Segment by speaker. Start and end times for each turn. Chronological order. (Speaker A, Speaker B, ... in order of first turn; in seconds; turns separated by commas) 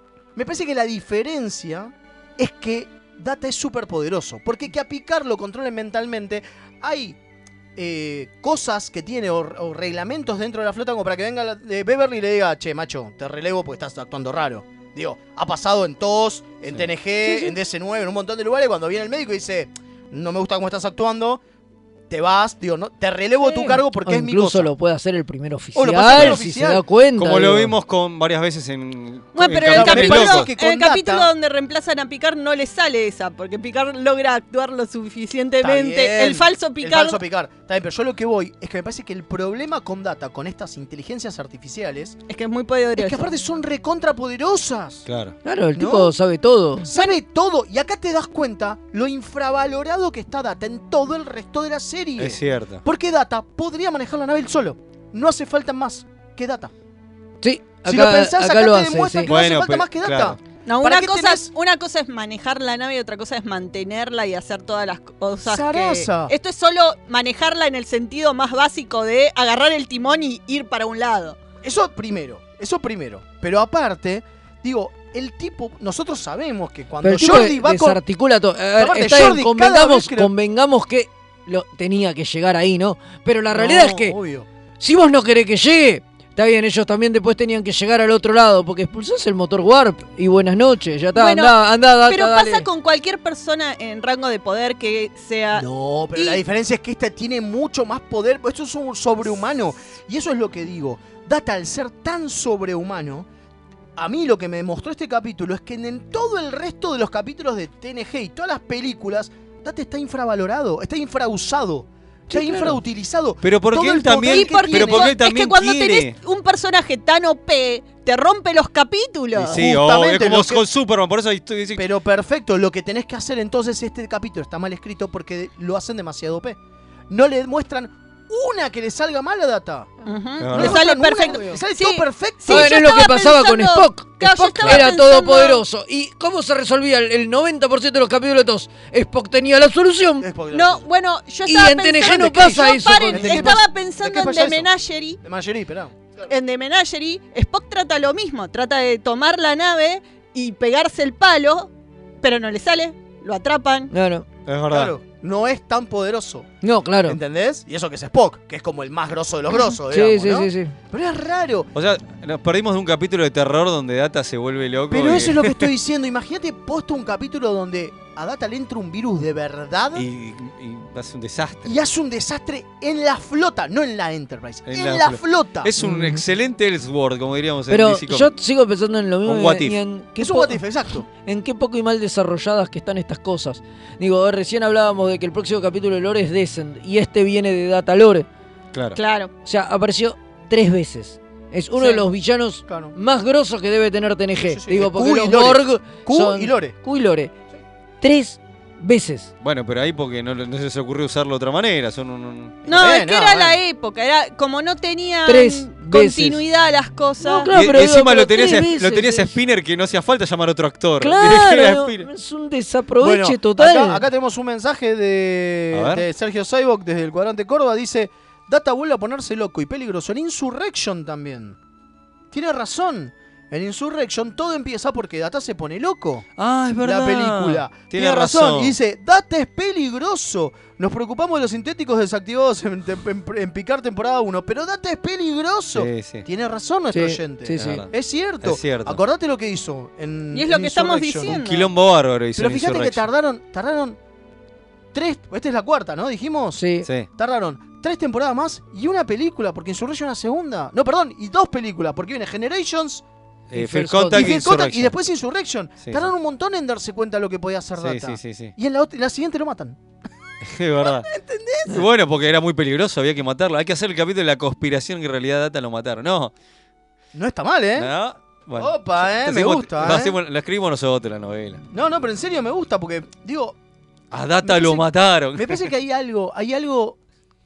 Speaker A: 0.3-7.2, Speaker A: 7.8-21.4, Speaker B: 17.2-17.6, Speaker A: 22.1-24.7, Speaker B: 23.4-27.7, Speaker A: 25.7-26.8, Speaker C: 27.1-30.5, Speaker D: 29.3-37.2, Speaker A: 29.6-31.3, Speaker A: 35.6-42.2, Speaker D: 42.3-43.3, Speaker A: 42.9-45.0, Speaker C: 45.1-45.3, Speaker B: 45.4-46.9, Speaker A: 45.7-46.1, Speaker A: 46.9-56.7, Speaker C: 52.2-52.8, Speaker B: 57.4-59.3, Speaker A: 57.8-61.5, Speaker C: 59.3-60.4, Speaker D: 60.6-71.4, Speaker A: 65.4-66.3, Speaker A: 71.6-78.0, Speaker B: 77.0-84.2, Speaker A: 78.8-80.3, Speaker A: 83.5-84.5, Speaker B: 84.8-92.7, Speaker D: 91.2-96.4, Speaker A: 95.5-103.3, Speaker A: 104.0-115.1, Speaker B: 112.3-112.8, Speaker C: 113.4-116.2, Speaker D: 114.3-119.6, Speaker A: 119.3-120.6, Speaker C: 119.5-121.8, Speaker A: 121.8-126.6, Speaker A: 127.1-129.9, Speaker D: 130.0-135.6, Speaker C: 130.4-130.8, Speaker A: 130.5-132.7, Speaker B: 132.5-140.2, Speaker C: 134.6-134.9, Speaker A: 140.2-140.9, Speaker D: 140.5-145.2, Speaker B: 141.4-143.6, Speaker A: 142.2-144.7, Speaker A: 145.2-146.2, Speaker D: 146.3-151.7, Speaker D: 152.2-153.9, Speaker B: 153.9-154.2, Speaker C: 154.4-154.9, Speaker A: 154.7-156.5, Speaker B: 156.6-157.2, Speaker A: 157.0-161.7, Speaker B: 159.9-160.7, Speaker C: 161.7-165.7, Speaker A: 164.9-170.1, Speaker C: 169.9-171.8, Speaker A: 171.6-175.7, Speaker C: 174.7-178.3, Speaker B: 175.8-176.2, Speaker B: 177.7-180.6, Speaker C: 179.2-179.8, Speaker A: 180.2-181.1, Speaker B: 181.1-188.3, Speaker C: 188.7-189.0, Speaker D: 188.9-189.3, Speaker B: 189.4-197.3, Speaker A: 191.8-192.0, Speaker A: 192.7-192.9, Speaker A: 194.4-196.7, Speaker B: 198.0-199.3, Speaker C: 199.4-202.6, Speaker A: 202.6-203.6, Speaker D: 202.6-207.5, Speaker B: 205.2-206.4, Speaker B: 207.2-209.3, Speaker C: 207.5-212.1, Speaker B: 211.0-214.0, Speaker A: 213.0-221.6, Speaker C: 215.7-216.0, Speaker A: 222.3-226.2, Speaker C: 226.4-228.7, Speaker A: 226.8-241.4, Speaker C: 235.7-236.2, Speaker B: 236.9-237.8, Speaker C: 237.6-237.9, Speaker C: 238.4-239.0, Speaker D: 240.3-241.7, Speaker C: 241.2-243.0, Speaker A: 242.3-244.0, Speaker A: 244.9-246.6, Speaker B: 246.6-246.9, Speaker A: 247.2-253.0, Speaker C: 253.5-254.9, Speaker B: 253.5-254.3, Speaker A: 254.1-259.8, Speaker C: 257.8-258.5, Speaker C: 260.4-261.1, Speaker A: 260.8-261.8, Speaker C: 261.7-266.3, Speaker A: 267.1-267.9, Speaker C: 267.8-271.6, Speaker A: 268.6-270.1, Speaker A: 271.7-273.6, Speaker C: 274.1-275.7, Speaker A: 274.4-277.0